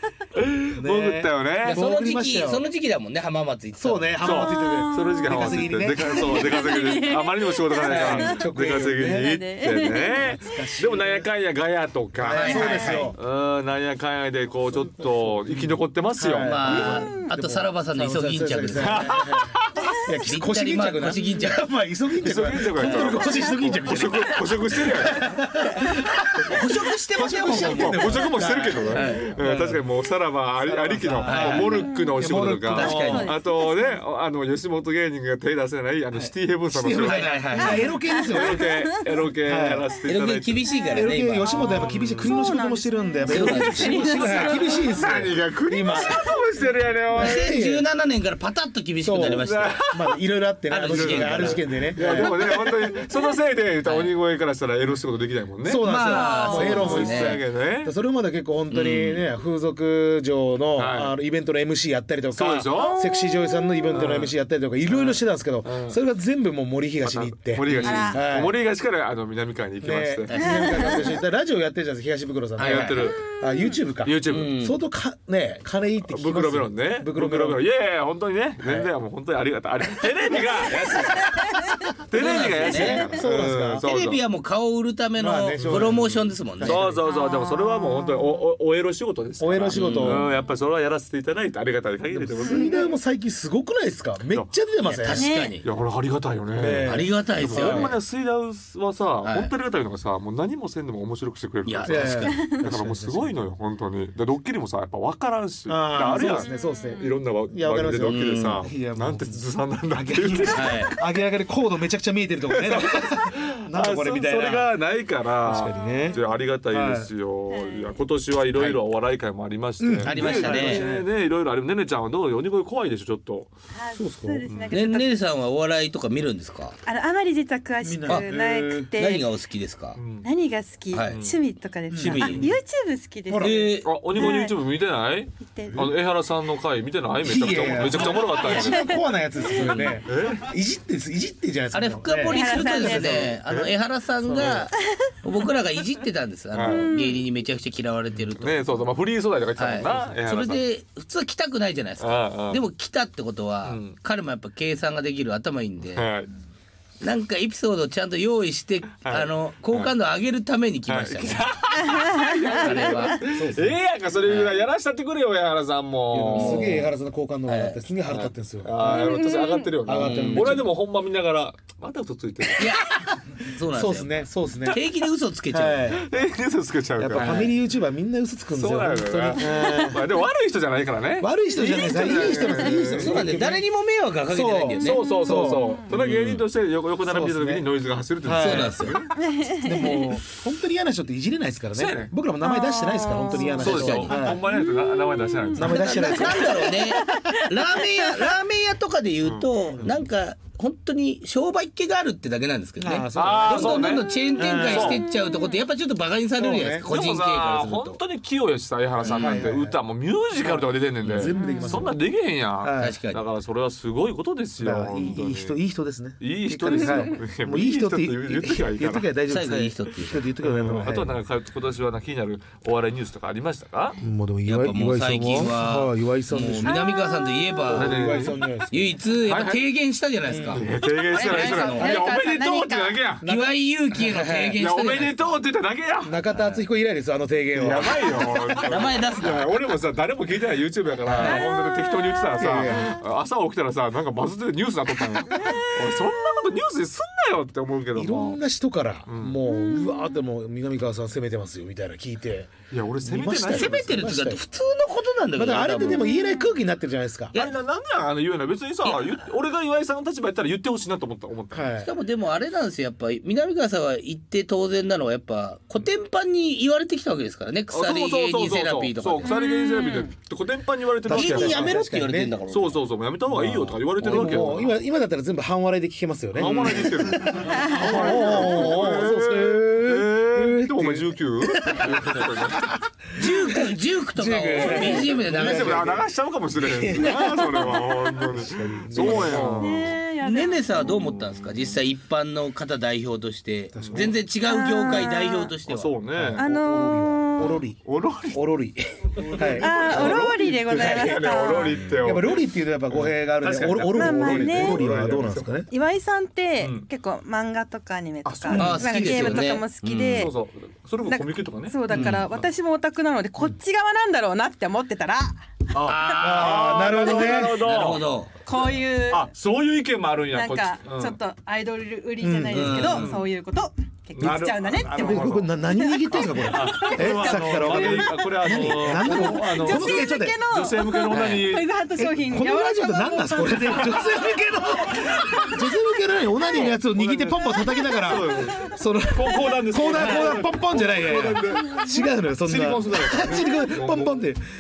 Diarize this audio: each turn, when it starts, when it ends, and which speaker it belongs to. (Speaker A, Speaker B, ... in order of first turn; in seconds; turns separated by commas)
Speaker A: 0.3-1.8, Speaker B: 0.8-2.7, Speaker C: 1.6-4.3, Speaker B: 3.8-6.3, Speaker A: 4.2-17.0, Speaker D: 4.3-8.4, Speaker B: 7.8-9.4, Speaker C: 7.9-8.3, Speaker D: 9.0-10.3, Speaker B: 10.2-11.3, Speaker B: 12.2-13.2, Speaker C: 12.2-13.1, Speaker D: 12.6-13.0, Speaker B: 14.7-29.8, Speaker C: 16.4-19.1, Speaker D: 16.9-17.3, Speaker A: 18.8-19.9, Speaker C: 20.2-21.6, Speaker A: 22.2-25.2, Speaker C: 22.8-23.5, Speaker C: 26.2-29.3, Speaker A: 27.3-37.4, Speaker B: 30.6-33.3, Speaker C: 31.2-31.9, Speaker D: 31.9-32.2, Speaker C: 32.7-33.3, Speaker D: 33.0-34.0, Speaker B: 36.1-38.8, Speaker C: 37.0-38.0, Speaker D: 37.6-39.0, Speaker A: 38.2-40.6, Speaker B: 39.4-39.9, Speaker C: 40.1-42.0, Speaker D: 40.7-41.1, Speaker B: 40.9-46.3, Speaker A: 41.5-42.3, Speaker D: 42.2-44.8, Speaker C: 43.3-44.9, Speaker A: 43.3-47.5, Speaker B: 47.1-47.9, Speaker C: 47.1-49.9, Speaker B: 49.0-52.4, Speaker A: 49.2-50.2, Speaker C: 50.7-52.5, Speaker A: 50.8-56.0, Speaker C: 53.8-54.1, Speaker B: 55.6-68.6, Speaker C: 55.8-57.4, Speaker D: 56.1-56.8, Speaker A: 56.5-57.9, Speaker C: 58.7-59.2, Speaker A: 60.8-61.1, Speaker A: 62.3-63.0, Speaker D: 62.7-63.8, Speaker A: 63.9-64.3, Speaker A: 65.6-66.0, Speaker A: 67.0-70.3, Speaker C: 67.7-68.2, Speaker D: 67.8-68.2, Speaker B: 69.8-77.6, Speaker C: 70.3-71.1, Speaker D: 70.4-71.1, Speaker C: 72.6-73.1, Speaker A: 72.6-73.2, Speaker D: 73.2-73.8, Speaker A: 74.0-74.6, Speaker C: 74.3-74.8, Speaker A: 76.0-84.2, Speaker C: 82.2-83.3, Speaker B: 82.3-83.9, Speaker C: 83.8-86.9, Speaker B: 85.2-87.0, Speaker A: 85.5-92.8, Speaker D: 87.1-88.4, Speaker B: 89.4-90.3, Speaker C: 89.7-90.2, Speaker B: 92.1-95.3, Speaker D: 92.4-92.8, Speaker C: 94.8-95.7, Speaker D: 95.1-95.6, Speaker A: 95.6-106.5, Speaker B: 96.5-98.0, Speaker C: 96.8-98.0, Speaker C: 99.2-99.5, Speaker C: 101.7-102.5, Speaker B: 101.8-103.4, Speaker B: 105.7-114.7, Speaker D: 106.3-107.2, Speaker A: 107.0-110.9, Speaker C: 108.0-108.7, Speaker C: 110.5-111.0, Speaker A: 112.5-123.5, Speaker B: 115.5-117.1, Speaker D: 115.8-116.3, Speaker D: 117.5-118.0, Speaker C: 118.5-118.8, Speaker B: 119.8-121.1, Speaker C: 120.0-120.8, Speaker D: 123.7-125.2, Speaker B: 124.0-124.5, Speaker A: 124.5-124.8, Speaker C: 124.7-126.8, Speaker D: 126.9-129.3, Speaker B: 127.8-128.9, Speaker C: 128.9-130.0, Speaker A: 129.9-130.3, Speaker D: 130.2-134.6, Speaker C: 130.9-131.2, Speaker A: 131.1-131.4, Speaker B: 131.9-132.6, Speaker C: 131.9-132.6, Speaker B: 133.3-133.7, Speaker C: 133.4-133.9, Speaker A: 133.8-138.9, Speaker D: 135.4-135.9, Speaker B: 137.2-143.3, Speaker D: 138.4-139.0, Speaker C: 139.6-140.0, Speaker A: 139.6-140.4, Speaker C: 141.7-148.7, Speaker D: 142.2-143.3, Speaker A: 143.0-143.7, Speaker B: 144.2-144.6, Speaker A: 144.3-144.6, Speaker A: 146.5-146.9, Speaker D: 146.7-147.2, Speaker A: 148.3-150.6, Speaker C: 149.6-156.1, Speaker A: 152.0-152.6, Speaker A: 153.7-154.0, Speaker A: 155.9-156.3, Speaker C: 157.0-161.5, Speaker A: 159.0-159.9, Speaker A: 160.9-166.8, Speaker D: 161.9-162.4, Speaker C: 162.5-163.3, Speaker B: 163.3-163.8, Speaker C: 164.2-164.6, Speaker C: 166.1-166.9, Speaker B: 166.3-169.2, Speaker C: 167.5-167.8, Speaker A: 168.1-172.8, Speaker D: 168.9-169.7, Speaker B: 169.8-170.7, Speaker C: 169.9-170.7, Speaker C: 172.6-176.0, Speaker B: 173.6-174.8, Speaker B: 175.5-176.1, Speaker A: 176.0-177.5, Speaker B: 177.0-180.0, Speaker C: 177.2-177.5, Speaker A: 178.5-183.4, Speaker D: 179.6-179.9, Speaker B: 181.2-183.6, Speaker C: 181.9-185.2, Speaker B: 184.3-186.3, Speaker A: 184.8-189.1, Speaker D: 184.9-185.8, Speaker C: 186.0-186.4, Speaker B: 187.1-187.7, Speaker B: 188.2-188.9, Speaker C: 188.3-189.0, Speaker D: 189.2-190.1, Speaker B: 189.6-194.4, Speaker A: 191.8-192.1, Speaker D: 192.4-193.6, Speaker C: 193.4-194.4, Speaker A: 193.6-196.2, Speaker D: 194.5-195.6, Speaker B: 195.6-196.7, Speaker C: 195.6-208.0, Speaker D: 196.2-198.3, Speaker A: 199.2-199.5, Speaker B: 199.7-200.0, Speaker B: 202.8-205.0, Speaker A: 203.2-205.0, Speaker D: 205.1-205.6, Speaker B: 206.4-206.9, Speaker A: 206.9-215.6, Speaker C: 209.0-209.5, Speaker B: 209.1-209.8, Speaker B: 210.4-212.0, Speaker C: 211.0-211.3, Speaker D: 211.4-211.9, Speaker B: 212.6-213.0, Speaker C: 212.8-213.2, Speaker B: 214.6-221.2, Speaker A: 216.2-219.1, Speaker C: 219.3-220.2, Speaker A: 220.4-224.0, Speaker B: 224.0-226.9, Speaker C: 224.5-232.0, Speaker D: 226.7-227.7, Speaker B: 227.7-228.9, Speaker A: 227.7-228.4, Speaker A: 229.2-229.7, Speaker B: 230.3-230.7, Speaker A: 230.5-233.2, Speaker D: 231.0-233.0, Speaker B: 233.2-234.6, Speaker C: 233.2-235.4, Speaker A: 234.6-236.2, Speaker B: 236.0-238.8, Speaker C: 236.3-236.6, Speaker A: 237.6-248.4, Speaker C: 238.6-239.5, Speaker B: 241.1-241.4, Speaker D: 241.3-242.4, Speaker B: 242.4-242.9, Speaker B: 247.9-254.4, Speaker A: 249.1-249.4, Speaker D: 249.5-250.1, Speaker A: 252.7-254.0, Speaker C: 253.5-256.1, Speaker B: 255.3-257.3, Speaker D: 256.0-256.5, Speaker A: 257.3-261.7, Speaker C: 258.8-259.2, Speaker B: 261.5-261.9, Speaker C: 261.8-269.3, Speaker A: 267.7-271.8, Speaker D: 269.2-270.1, Speaker B: 271.1-272.4, Speaker C: 271.1-272.8, Speaker A: 272.5-274.7, Speaker B: 273.3-286.0, Speaker C: 274.0-274.7, Speaker A: 276.4-282.7, Speaker C: 283.2-286.0, Speaker A: 284.6-290.0, Speaker B: 286.6-287.2, Speaker B: 288.2-289.9, Speaker D: 289.6-290.9, Speaker C: 290.2-295.9, Speaker A: 290.9-291.8, Speaker B: 293.7-294.2, Speaker A: 293.8-294.1, Speaker D: 294.4-295.6, Speaker A: 295.6-296.4, Speaker B: 296.1-297.8, Speaker D: 296.4-297.6, Speaker A: 297.8-298.5, Speaker B: 298.3-300.2, Speaker A: 299.1-305.6, Speaker D: 299.6-301.8, Speaker B: 301.9-305.7, Speaker D: 303.9-304.8, Speaker D: 305.7-310.3, Speaker A: 306.6-306.9, Speaker A: 308.2-312.5, Speaker C: 308.5-310.3, Speaker D: 311.1-315.4, Speaker C: 311.9-312.3, Speaker A: 315.7-321.2, Speaker C: 315.8-318.3, Speaker B: 316.2-317.6, Speaker D: 318.5-319.3, Speaker D: 320.3-325.2, Speaker B: 322.2-322.9, Speaker C: 322.5-323.1, Speaker A: 322.8-323.2, Speaker A: 324.2-325.5, Speaker B: 324.9-330.4, Speaker D: 325.8-328.2, Speaker A: 326.1-331.7, Speaker D: 329.1-334.0, Speaker C: 331.1-331.6, Speaker B: 332.0-344.4, Speaker D: 335.1-335.6, Speaker A: 336.7-341.8, Speaker A: 342.4-344.3